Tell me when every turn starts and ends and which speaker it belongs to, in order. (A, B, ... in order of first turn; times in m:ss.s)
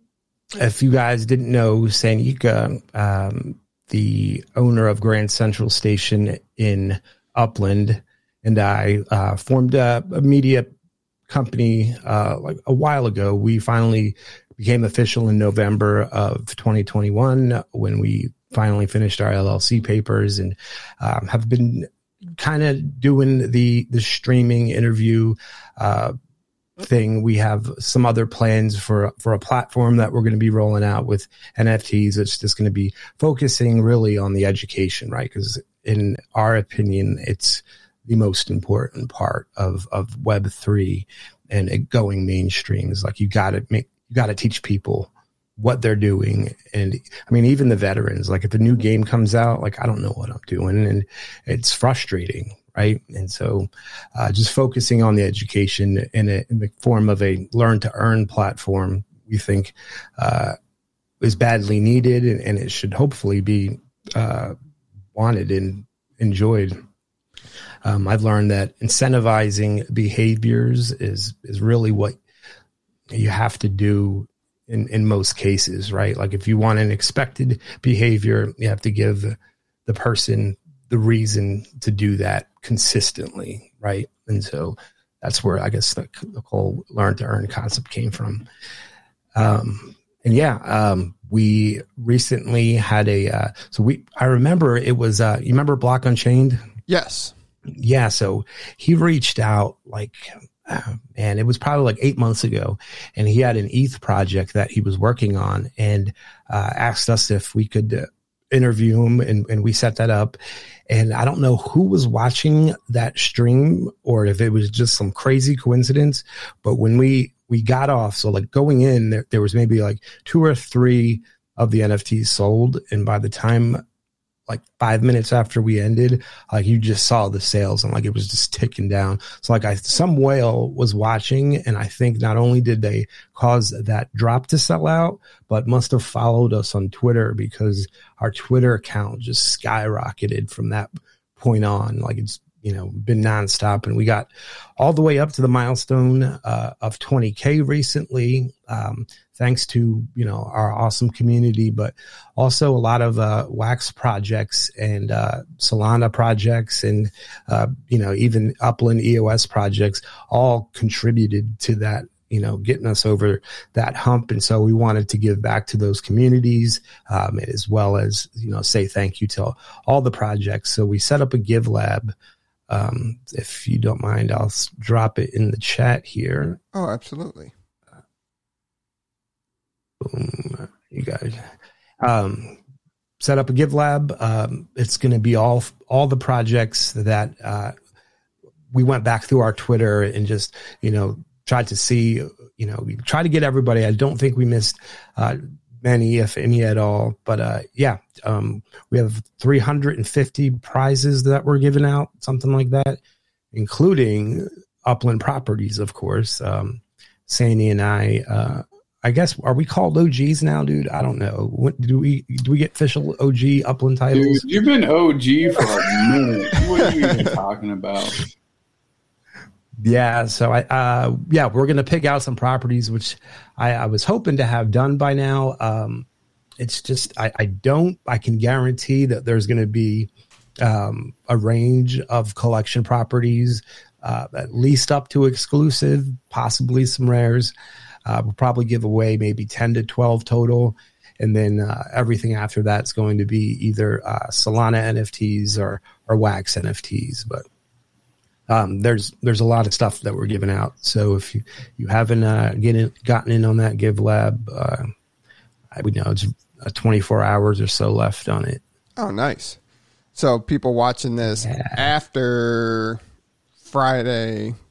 0:00.6-0:10.7 A
0:11.3-0:26.2 A
0:26.8-1:00.6 A
1:01.2-1:04.5 A
1:05.1-1:06.8 A
1:07.8-1:12.2 A
1:13.1-1:28.4 A
1:29.4-1:36.6 A
1:36.9-1:37.3 B
1:37.7-1:50.4 A
1:50.9-2:03.8 A
2:04.5-2:52.1 A
2:52.7-2:56.6 A
2:56.7-2:57.5 B
3:00.0-3:02.6 A
3:03.2-3:07.8 A
3:08.7-3:23.0 A
3:23.5-3:34.5 A
3:34.1-3:38.2 C
3:36.9-3:37.2 B
3:39.8-3:46.1 A
3:46.6-3:50.1 A
3:50.6-3:57.5 A
3:58.1-4:07.4 A
4:08.5-4:14.9 A
4:15.7-4:18.6 A
4:19.0-4:19.6 B
4:20.2-4:23.0 B
4:21.4-4:21.9 A
4:23.6-4:24.6 B